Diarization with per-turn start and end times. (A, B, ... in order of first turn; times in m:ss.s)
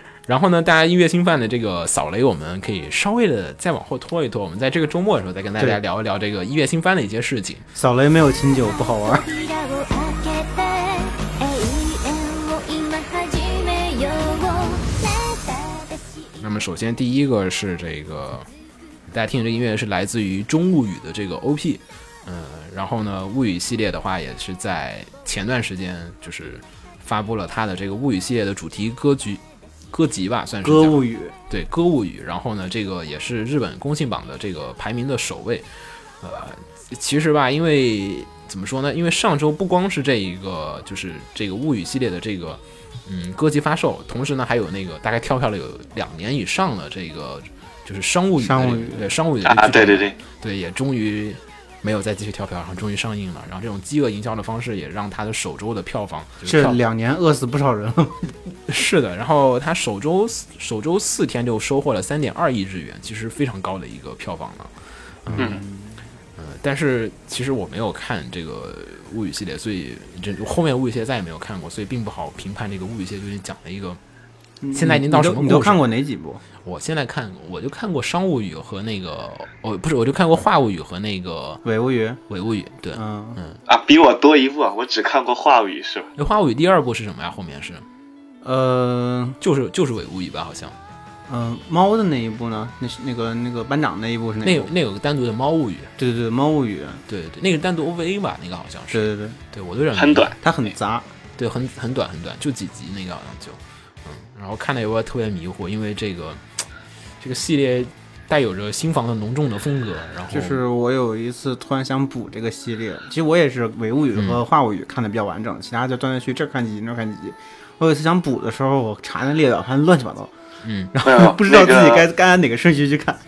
0:00.3-0:07.6 A
0:07.8-0:09.3 B
0:08.7-0:16.3 C
0:16.4-0:18.5 A
0:19.1-0:35.7 A
0:30.6-0:31.3 B
0:36.2-0:56.8 A
0:48.4-0:49.1 B
0:49.4-0:50.2 D
0:56.4-0:58.3 B
0:58.7-1:04.7 A
1:05.2-1:05.6 A
1:05.3-1:06.0 B
1:06.4-1:14.0 A
1:14.6-1:16.4 B
1:14.7-1:15.8 A
1:16.6-1:21.6 A
1:21.6-1:22.2 B
1:22.3-1:23.6 A
1:22.9-1:23.4 B
1:23.7-1:26.1 D
1:26.2-1:27.8 A
1:28.4-1:29.4 B
1:29.4-1:30.8 A
1:31.3-1:34.7 B
1:34.4-1:35.9 A
1:36.0-1:37.0 B
1:37.1-1:40.3 A
1:38.9-1:39.4 B
1:39.9-1:40.4 D
1:40.4-1:41.1 B
1:41.4-1:46.4 A
1:47.2-1:50.6 A
1:50.3-2:00.3 B
1:54.2-1:54.4 A
2:00.6-2:00.9 A
2:00.9-2:03.2 B
2:01.0-2:02.1 D